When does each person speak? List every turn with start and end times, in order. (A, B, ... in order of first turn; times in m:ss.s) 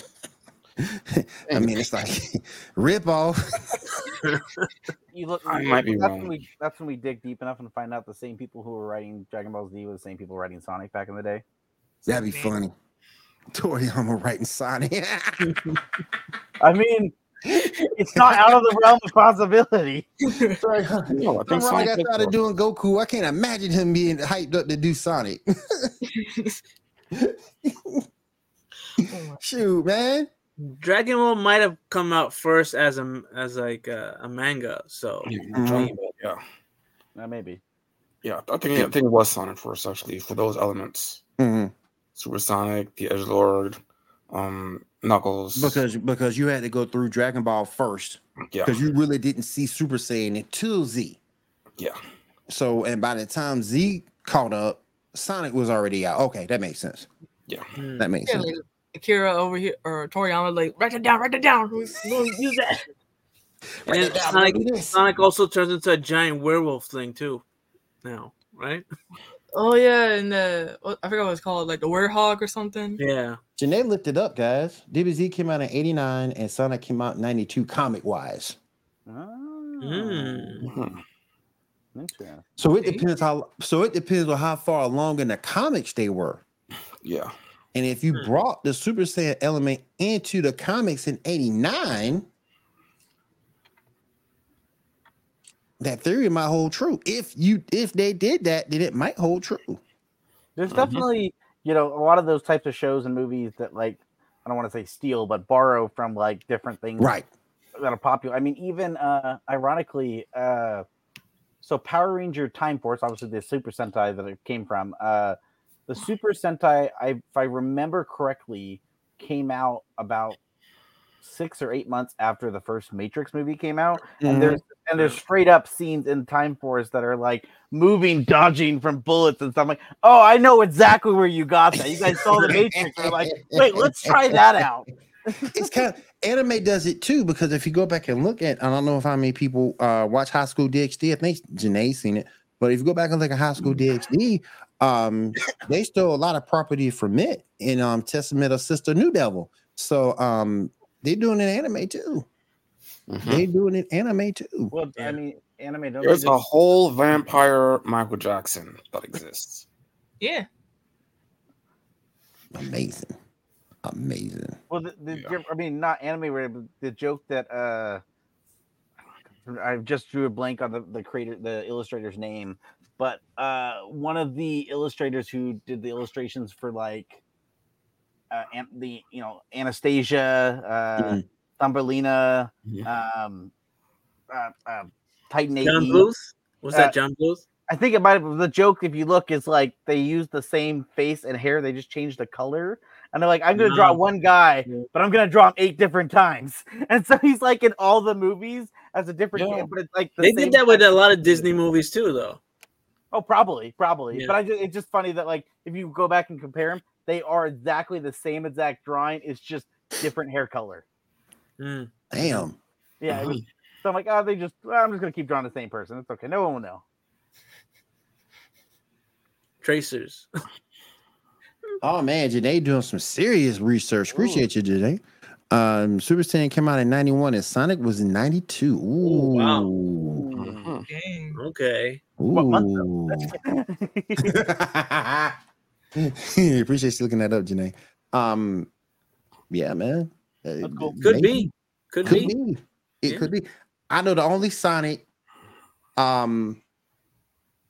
0:00.8-0:04.1 A
0:01.5-0:01.8 B
0:04.3-0:04.6 C
0:05.1-0:11.4 D
0:05.5-0:06.4 B
0:12.0-0:12.6 E
0:12.1-0:12.7 A
0:13.5-0:15.6 A
0:16.6-0:20.1 D
0:17.5-0:18.5 A
0:20.3-0:20.6 E
0:20.5-0:26.0 A
0:21.1-0:22.3 B
0:26.1-0:26.5 E
0:27.1-0:28.0 A
0:29.0-0:30.3 A
0:29.0-0:29.4 E
0:30.6-0:35.3 C
0:35.2-0:36.4 B
0:35.5-0:35.9 A
0:37.2-0:37.6 D
0:38.2-0:41.2 B
0:41.4-0:41.7 A
0:42.2-0:45.8 B
0:45.5-0:51.2 A
0:52.5-0:57.1 A
0:57.8-0:58.1 C
0:58.0-0:58.5 A
0:58.2-1:02.9 E
1:03.8-1:05.0 A
1:03.9-1:07.4 C
1:08.0-1:08.8 C
1:09.5-1:13.0 E
1:13.0-1:13.4 C
1:13.6-1:18.6 A
1:19.1-1:21.0 D
1:19.8-1:20.7 C
1:20.6-1:21.0 B
1:21.9-1:22.4 D
1:22.6-1:26.4 A
1:27.0-1:27.3 B
1:27.7-1:32.3 A
1:35.8-1:39.8 A
1:40.6-1:47.1 D
1:40.7-1:41.0 B
1:47.0-1:47.3 A
1:47.8-1:50.8 D
1:51.6-1:55.4 D
1:55.9-2:00.4 D
2:01.2-2:15.7 D
2:04.2-2:04.6 A
2:11.8-2:14.6 A
2:15.4-2:32.2 A
2:33.1-2:33.4 B
2:33.2-2:34.7 A
2:34.7-2:36.4 D
2:36.0-2:39.6 B
2:40.2-2:40.5 E
2:42.5-2:43.1 A
2:43.8-2:44.6 A
2:44.7-2:48.0 D
2:49.4-2:57.2 D
2:58.3-3:03.5 D
3:01.0-3:01.2 A
3:04.3-3:06.1 D
3:05.6-3:07.4 C
3:07.7-3:21.4 D
3:13.6-3:14.0 C
3:19.3-3:19.7 B
3:20.2-3:22.4 C
3:23.1-3:30.8 D
3:31.6-3:32.4 C
3:32.1-3:32.6 A
3:33.0-3:36.8 D
3:33.1-3:33.4 B
3:39.6-3:40.3 C
3:41.8-3:50.2 A
3:44.1-3:44.4 D
3:49.0-3:49.7 C
3:50.1-3:50.7 D
3:50.4-3:50.9 B
3:50.9-3:51.4 E
3:51.3-3:52.0 C
3:52.2-3:53.3 A
3:52.3-3:54.4 D
3:54.2-3:55.4 A
3:56.0-3:58.7 A
3:59.5-4:01.5 A
4:00.6-4:01.0 D
4:01.0-4:02.3 C
4:02.0-4:05.0 A
4:06.0-4:06.6 A